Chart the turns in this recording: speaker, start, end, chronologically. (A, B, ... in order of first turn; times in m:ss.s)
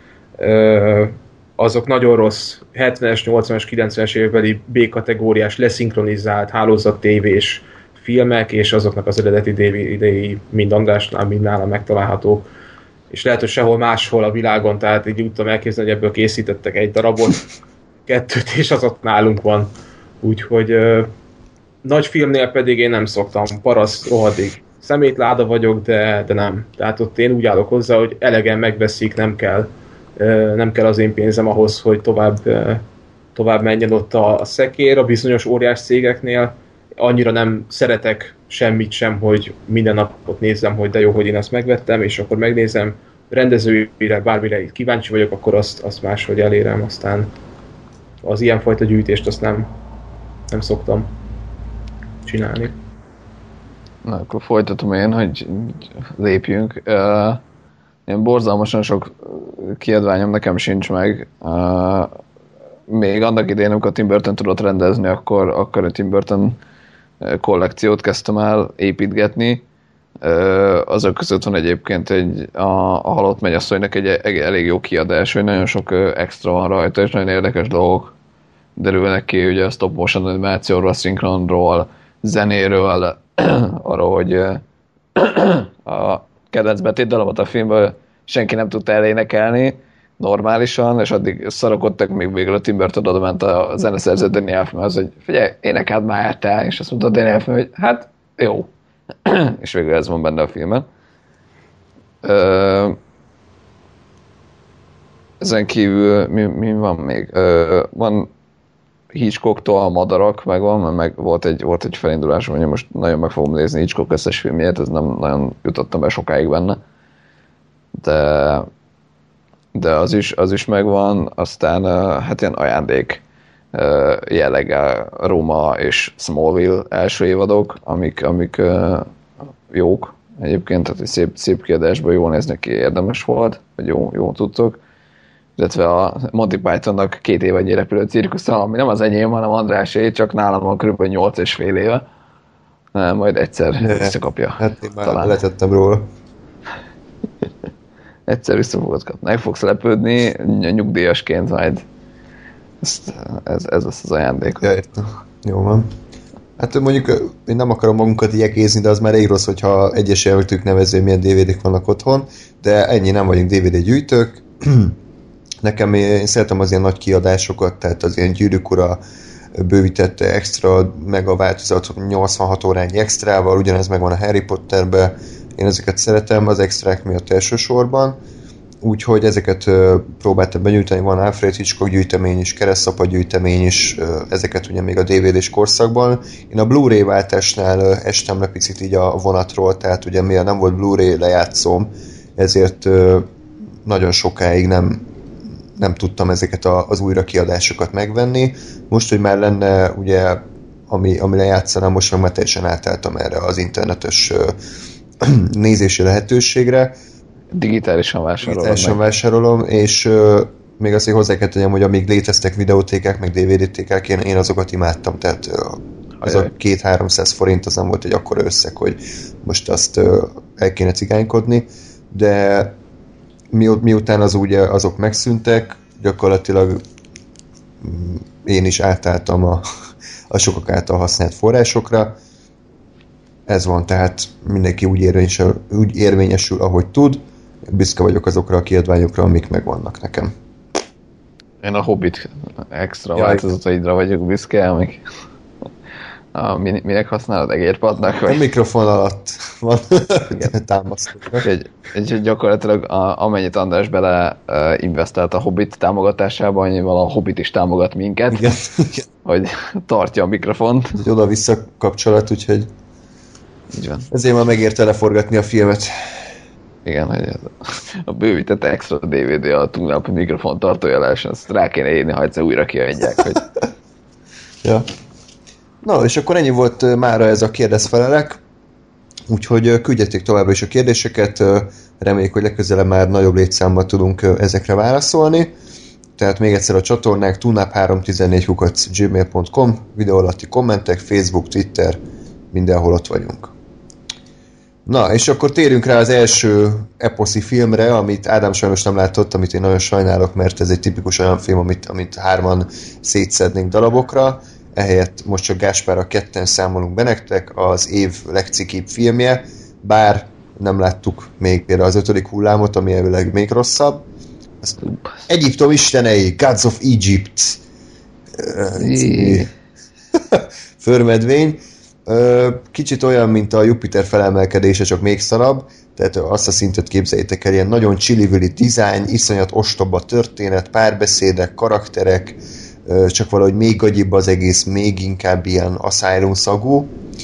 0:00.4-0:12.5 A
0:13.1-0:17.4 A
0:18.1-0:19.7 A
0:20.2-0:21.1 A
0:21.8-0:32.8 A
0:33.3-0:47.3 A
0:48.2-0:49.7 A
0:50.5-0:51.1 A
0:52.2-0:52.7 A
0:54.0-0:57.4 B
0:58.1-1:02.1 B
1:02.9-1:06.6 B
1:07.2-1:09.6 B
1:10.2-1:18.1 B
1:18.8-1:24.6 B
1:25.1-1:38.7 B
1:39.2-1:40.9 B
1:42.2-1:43.0 B
1:45.4-1:48.3 B
1:49.1-1:56.8 B
1:57.9-1:58.7 B
1:59.7-2:03.2 B
2:03.7-2:09.1 B
2:09.7-2:14.8 B
2:15.6-2:22.0 B
2:22.9-2:25.4 B
2:23.8-2:26.1 C
2:28.3-2:31.8 B
2:32.8-2:34.7 B
2:34.6-2:35.9 C
2:36.6-2:45.0 C
2:45.6-2:49.0 C
2:49.6-2:58.2 C
2:58.8-3:13.3 C
3:13.8-3:15.0 C
3:15.8-3:24.6 C
3:25.2-3:27.0 C
3:27.5-3:29.0 B
3:28.4-3:42.7 C
3:36.2-3:36.5 B
3:43.5-3:46.8 C
3:47.8-3:49.6 C
3:50.3-3:52.2 C
3:53.5-4:00.3 C
4:01.6-4:05.0 B
4:03.1-4:03.5 C
4:06.3-4:08.4 B
4:08.3-4:11.4 C
4:11.4-4:18.5 B
4:18.3-4:19.0 C
4:19.2-4:21.0 B
4:21.0-4:22.7 C
4:23.7-4:24.1 B
4:24.1-4:25.9 C
4:26.8-4:33.4 B
4:35.8-4:38.4 C
4:39.3-4:45.5 C
4:46.2-4:52.0 C
4:52.5-4:53.5 C
4:54.9-5:14.0 C
5:14.8-5:15.2 B
5:15.3-5:17.6 C
5:18.4-5:19.5 C
5:18.7-5:19.5 B
5:20.2-5:36.9 C